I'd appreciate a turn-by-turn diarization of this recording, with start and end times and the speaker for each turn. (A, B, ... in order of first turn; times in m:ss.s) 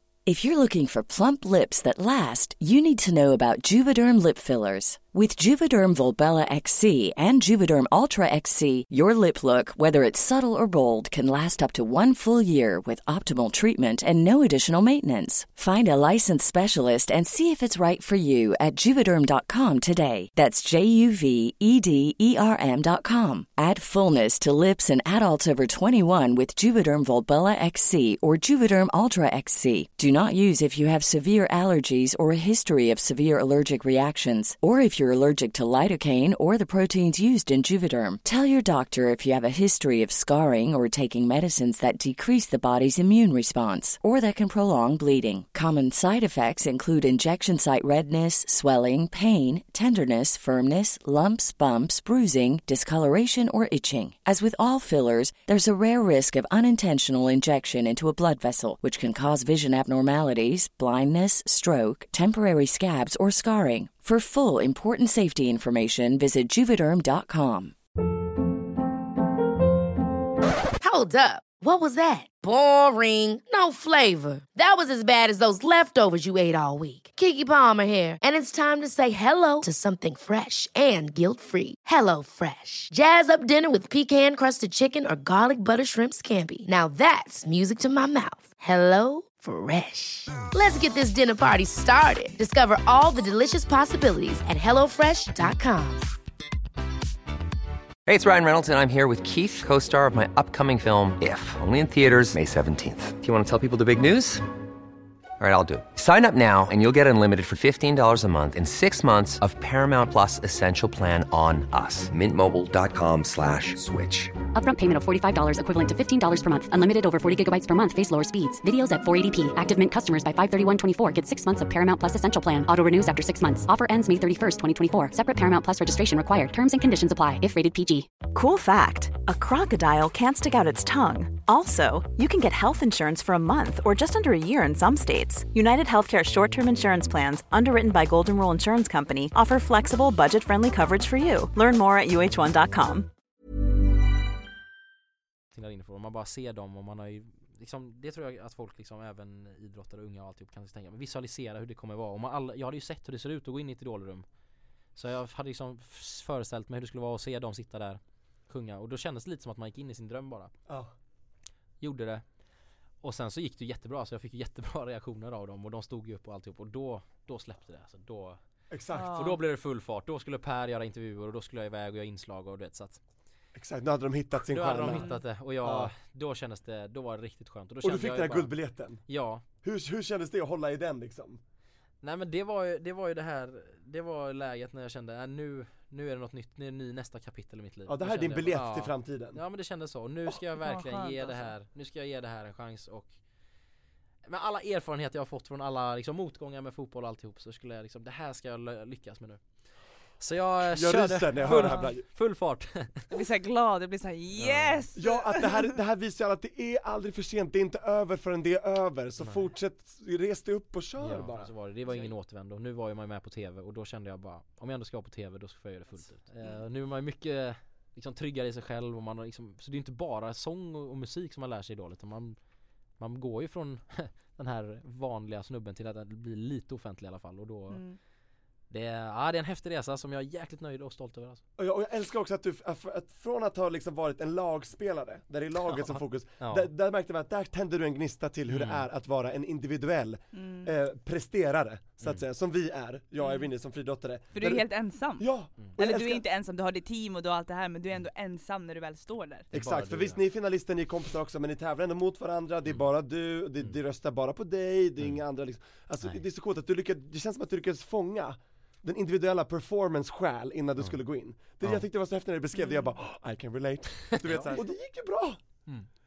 0:00.2-1:07.7 A
1:10.8-1:36.1 B
1:38.0-1:44.4 C
1:45.4-1:54.3 C
1:54.5-2:08.1 D
2:08.2-2:23.1 E
2:25.5-2:34.2 F
2:35.0-2:40.5 F
2:40.7-2:40.9 G
2:41.8-2:42.2 F
2:43.0-2:48.4 F
2:48.7-2:49.3 G
2:48.9-2:49.4 H
2:49.1-2:53.0 F
2:53.5-2:55.9 G
2:54.4-2:58.5 F
2:54.9-2:55.2 H
2:57.8-2:59.0 G
2:59.1-2:59.4 F
2:59.6-3:01.4 G
3:02.0-3:13.1 F
3:07.8-3:09.4 G
3:10.6-3:11.5 H
3:14.2-3:19.4 F
3:20.2-3:23.1 F
3:20.6-3:22.0 G
3:21.5-3:21.8 H
3:23.1-3:25.7 H
3:24.4-3:24.9 F
3:25.0-3:31.5 G
3:29.2-3:29.5 F
3:31.0-3:42.4 F
3:43.0-3:47.8 F
3:47.7-3:48.0 H
3:48.7-3:51.4 F
3:51.6-4:06.2 G
3:55.7-3:56.7 F
3:58.5-3:58.8 F
4:00.3-4:00.7 H
4:03.2-4:03.5 H
4:04.3-4:09.5 H
4:09.5-4:10.2 F
4:09.5-4:25.4 G
4:24.1-4:24.6 F